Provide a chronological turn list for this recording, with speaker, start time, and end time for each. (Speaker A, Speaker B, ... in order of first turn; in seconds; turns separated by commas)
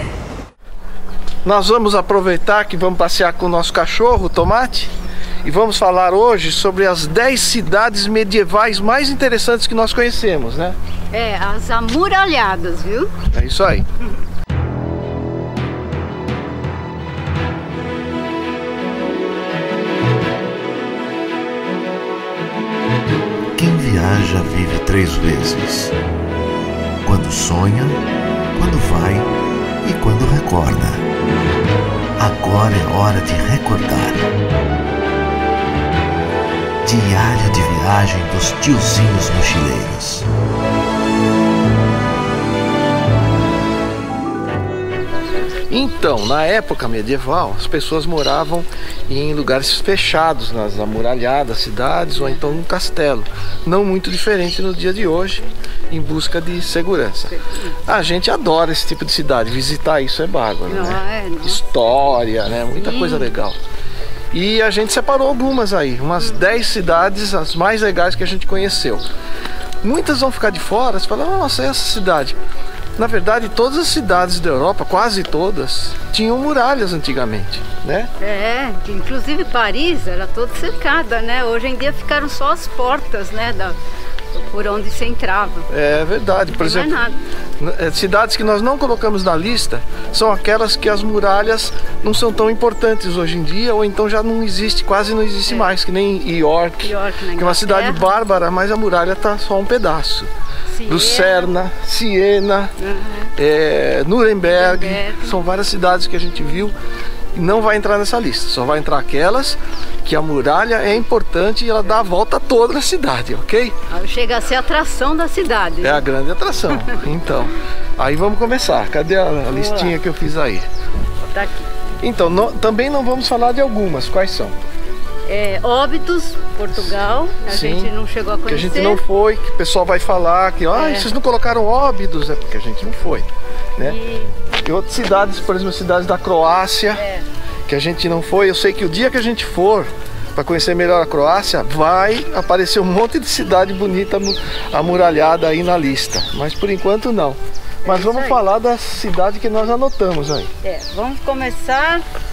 Speaker A: 1.4-4.9, Speaker A: 5.4-10.8, Speaker B: 11.1-13.1, Speaker A: 13.3-13.8, Speaker C: 23.6-25.9, Speaker C: 27.0-28.0, Speaker C: 28.5-29.3, Speaker C: 29.8-31.0, Speaker C: 32.2-34.2, Speaker C: 36.8-40.3, Speaker A: 45.7-63.6, Speaker B: 52.1-52.6, Speaker B: 57.3-57.7, Speaker B: 60.7-61.6, Speaker B: 62.7-63.4, Speaker A: 64.3-69.0, Speaker A: 69.8-72.4, Speaker A: 73.0-78.1, Speaker B: 78.2-83.8, Speaker B: 84.3-85.7, Speaker A: 85.7-87.0, Speaker B: 86.6-87.2, Speaker A: 87.6-100.3, Speaker B: 96.8-98.0, Speaker B: 100.7-101.5, Speaker A: 100.9-102.7, Speaker B: 102.8-103.3, Speaker A: 103.3-106.7, Speaker B: 104.4-105.3, Speaker A: 107.3-113.7, Speaker B: 113.9-116.1, Speaker A: 115.8-120.6, Speaker B: 119.5-120.0, Speaker B: 121.3-121.7, Speaker A: 122.0-124.6, Speaker B: 125.3-129.0, Speaker A: 127.4-127.9, Speaker A: 128.5-134.0, Speaker B: 130.7-131.1, Speaker B: 133.8-134.3, Speaker A: 134.6-137.0, Speaker B: 136.9-137.2, Speaker A: 137.7-150.5, Speaker B: 147.8-148.4, Speaker B: 150.6-152.0